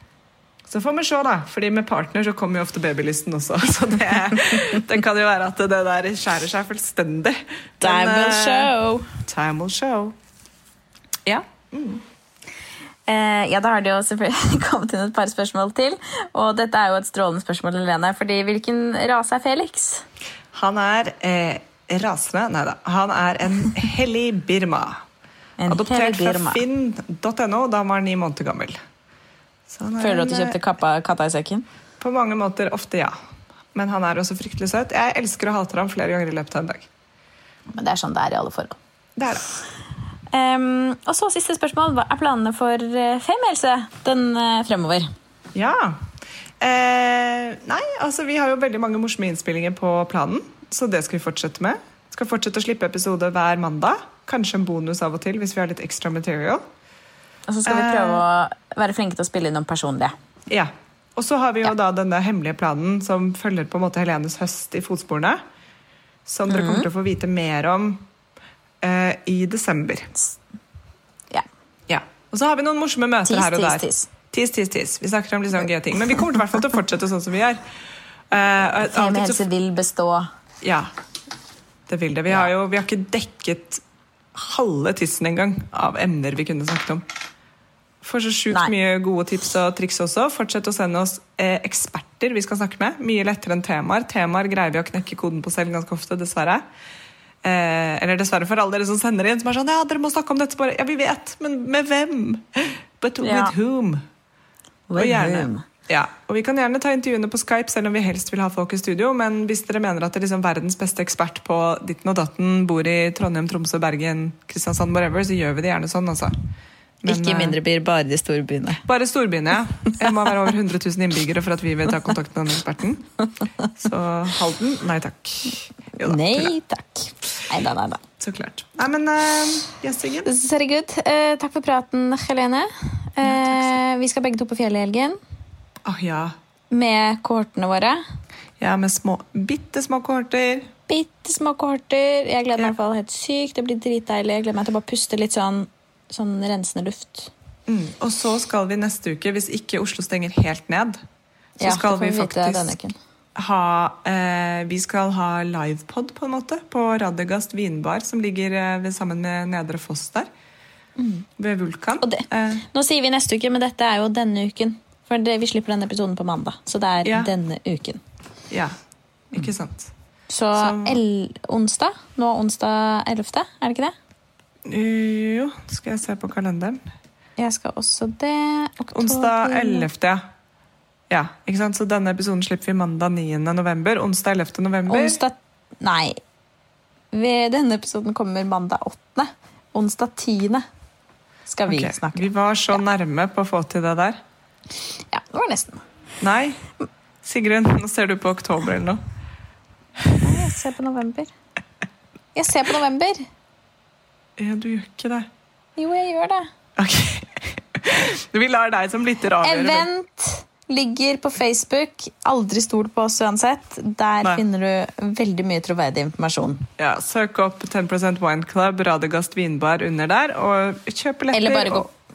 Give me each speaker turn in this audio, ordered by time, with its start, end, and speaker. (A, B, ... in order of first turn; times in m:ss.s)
0:00.7-0:10.2 A
0:07.8-0:09.1 B
0:11.3-0:12.0 A
0:13.1-0:20.0 B
0:20.5-0:25.0 A
0:25.6-0:26.6 B
0:25.7-0:28.8 A
0:29.7-0:30.6 A
0:30.0-0:31.6 B
0:32.0-0:33.2 A
0:33.7-0:36.9 A
0:37.7-0:38.8 B
0:39.2-0:39.4 A
0:40.3-0:45.1 B
0:45.5-0:46.1 A
0:46.6-0:56.6 A
0:57.5-1:00.1 B
0:57.7-0:58.2 A
1:00.5-1:05.4 A
1:06.3-1:08.1 A
1:06.5-1:06.9 B
1:08.8-1:10.1 A
1:11.9-1:17.6 A
1:13.2-1:14.1 B
1:18.3-1:19.4 A
1:18.9-1:20.3 B
1:20.6-1:20.9 A
1:21.9-1:23.8 A
1:24.4-1:27.0 A
1:28.0-1:36.6 A
1:37.4-1:44.0 A
1:43.2-1:43.5 B
1:44.9-1:45.6 B
1:45.0-1:56.4 A
1:57.0-1:57.6 A
1:57.0-1:58.8 B
1:58.8-2:03.1 A
2:03.8-2:06.5 A
2:06.0-2:08.0 B
2:08.2-2:10.3 A
2:10.2-2:15.2 B
2:13.2-2:13.8 A
2:15.8-2:16.4 A
2:16.7-2:18.0 B
2:18.6-2:20.7 A
2:20.9-2:27.3 B
2:27.7-2:31.0 A
2:31.6-2:33.0 B
2:31.6-2:32.7 A
2:33.4-2:40.3 A
2:41.0-2:41.3 B
2:41.4-2:42.6 A
2:42.0-2:48.0 B
2:47.0-2:47.3 A
2:48.5-2:48.8 A
2:49.3-2:49.9 A
2:50.3-2:53.9 B
2:50.6-2:51.0 A
2:54.7-2:56.8 A
2:57.4-2:59.9 B
2:58.9-3:00.2 A
3:01.1-3:05.2 A
3:04.9-3:06.2 B
3:07.1-3:10.6 B
3:11.5-3:12.2 B
3:11.7-3:14.2 A
3:15.1-3:15.8 B
3:16.2-3:16.6 A
3:17.2-3:19.0 A
3:20.2-3:21.3 B
3:22.4-3:23.3 B
3:24.4-3:25.3 A
3:25.8-3:26.5 B
3:26.8-3:29.9 A
3:29.4-3:36.7 B
3:36.8-3:41.9 A
3:41.3-3:41.9 B